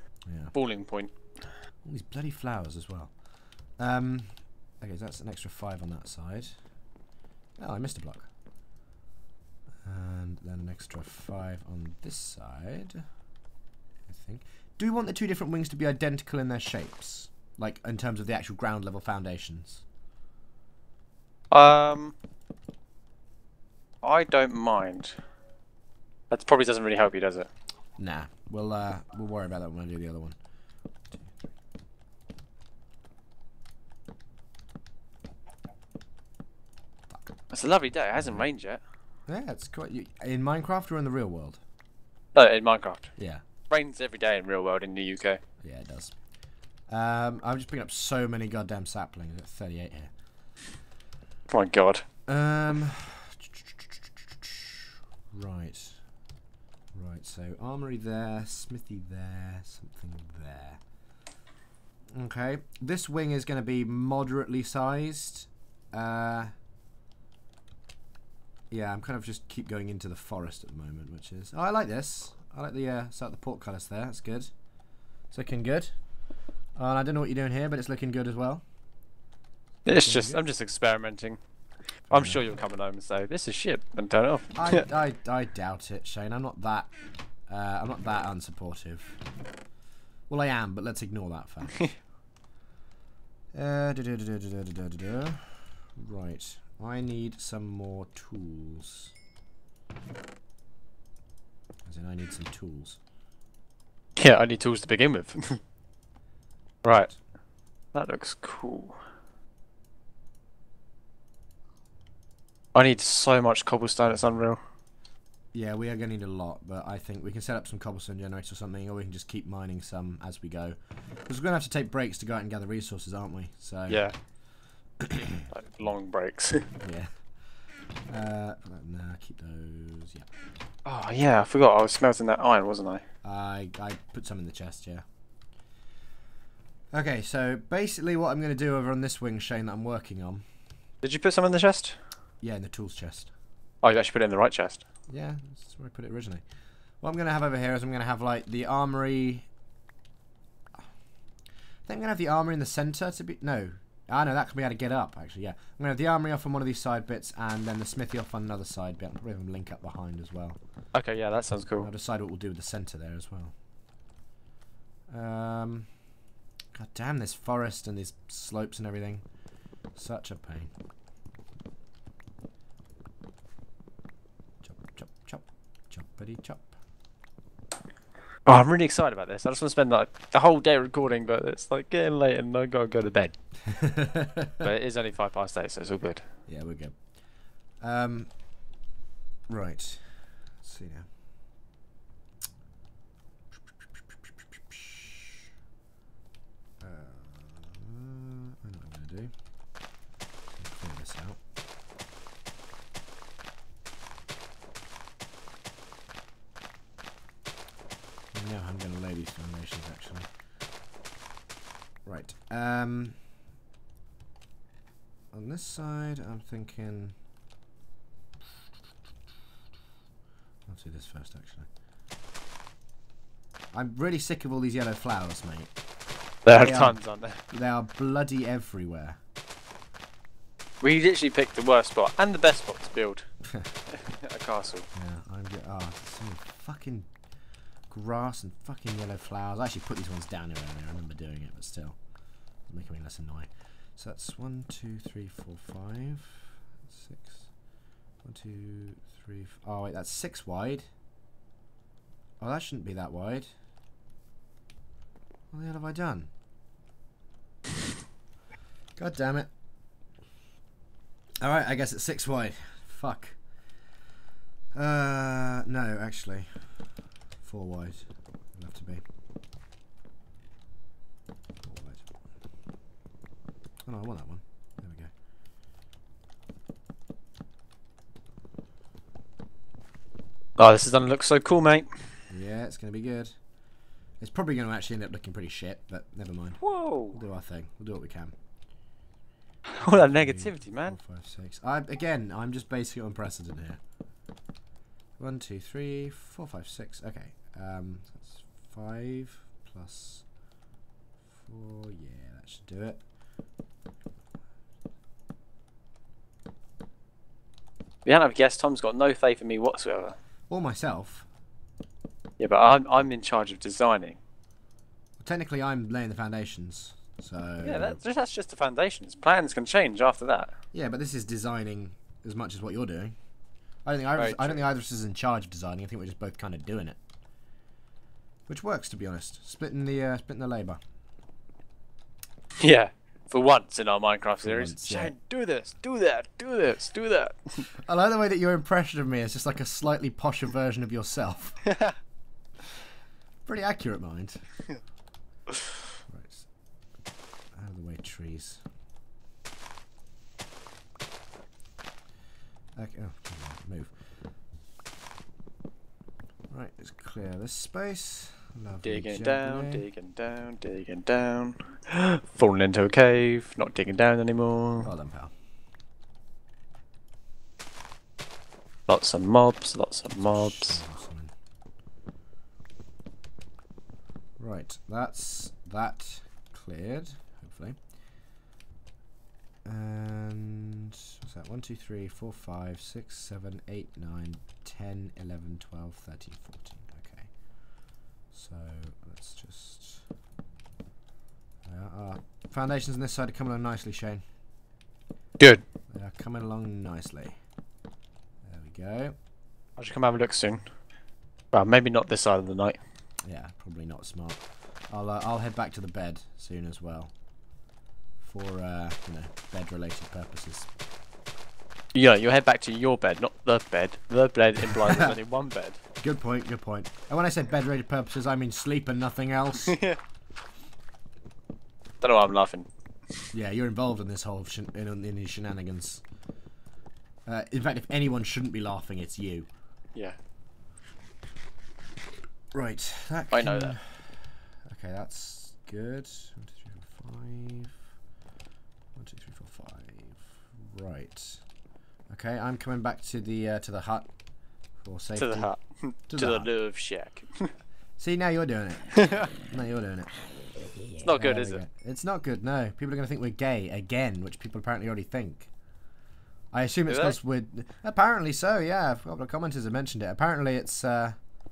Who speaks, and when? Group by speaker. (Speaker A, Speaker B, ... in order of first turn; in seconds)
Speaker A: 0.3-0.5, 1.8-3.1, 3.8-6.5, 7.6-8.3, 9.8-13.0, 14.1-19.8, 28.0-30.4, 38.1-38.5, 39.3-41.6, 43.2-43.4, 45.6-46.1, 46.9-50.1, 52.3-56.0, 56.9-60.8, 62.1-66.5, 68.7-74.5, 75.3-75.9, 76.8-78.6, 79.8-80.4, 82.1-82.4, 84.5-86.9, 87.5-89.2, 90.3-91.9, 93.5-99.1, 101.8-103.0, 115.5-120.8, 121.3-124.0, 125.0-125.9, 126.8-127.1, 128.1-130.3, 133.2-135.0, 136.9-140.4, 142.4-143.3, 145.1-146.4, 147.0-149.4, 151.9-160.6, 161.8-163.5, 165.1-165.9, 166.7-169.2, 169.9-170.7, 174.6-176.7, 183.6-184.7, 186.5-187.0, 187.8-188.3, 189.5-191.1, 194.1-195.4, 196.8-199.3, 200.5-201.4, 208.3-210.3, 212.0-213.2, 215.3-217.2, 220.7-221.7, 223.7-225.7, 226.5-227.0, 227.5-229.2, 234.9-237.1, 237.9-242.0, 242.7-247.5, 248.2-250.9, 252.4-253.5, 255.5-256.3, 258.9-259.5, 261.4-263.4, 264.7-266.7, 267.4-269.0, 271.6-272.1, 273.9-275.1, 282.3-283.3, 284.2-286.6, 287.1-288.3, 289.8-293.8, 295.2-300.2, 301.3-303.0, 310.5-311.3, 315.2-318.0, 320.7-323.1, 323.8-327.0, 328.5-330.8, 334.4-335.1, 337.8-341.6, 343.4-344.4, 346.1-346.4, 347.5-348.6, 352.8-353.9, 356.5-359.8, 364.8-365.3, 370.2-371.3, 374.4-377.8, 379.6-387.3, 388.3-390.0, 391.6-394.2, 395.9-397.4, 398.4-399.1, 403.2-407.1, 408.2-410.7, 414.8-415.1, 416.0-419.8, 423.3-426.0, 427.2-429.5, 432.5-437.8, 438.9-441.4, 442.1-444.1, 444.8-445.5, 446.1-446.5, 448.0-450.1, 450.9-455.5, 456.5-461.2
Speaker B: 0.5-1.1, 21.5-22.1, 24.0-25.1, 26.3-27.5, 37.5-38.8, 42.3-43.1, 43.7-45.4, 51.5-52.0, 79.8-81.4, 82.1-84.8, 104.2-105.6, 106.8-107.1, 107.9-109.0, 112.7-114.6, 123.9-124.1, 125.4-126.7, 130.8-133.0, 141.0-142.0, 143.8-144.8, 160.9-161.9, 178.4-183.3, 184.6-186.2, 226.4-227.4, 230.8-233.2, 233.9-234.9, 280.6-281.9, 286.6-287.2, 289.7-291.0, 308.0-310.1, 312.4-314.2, 317.6-320.5, 324.2-324.6, 332.6-337.7, 341.6-341.9, 358.8-364.9, 368.9-370.8, 395.4-395.6, 399.8-400.6, 401.5-402.8, 411.9-415.8, 419.6-420.0, 422.0-422.7, 433.3-433.8, 445.1-447.5, 448.9-449.3, 451.0-451.6, 456.9-457.1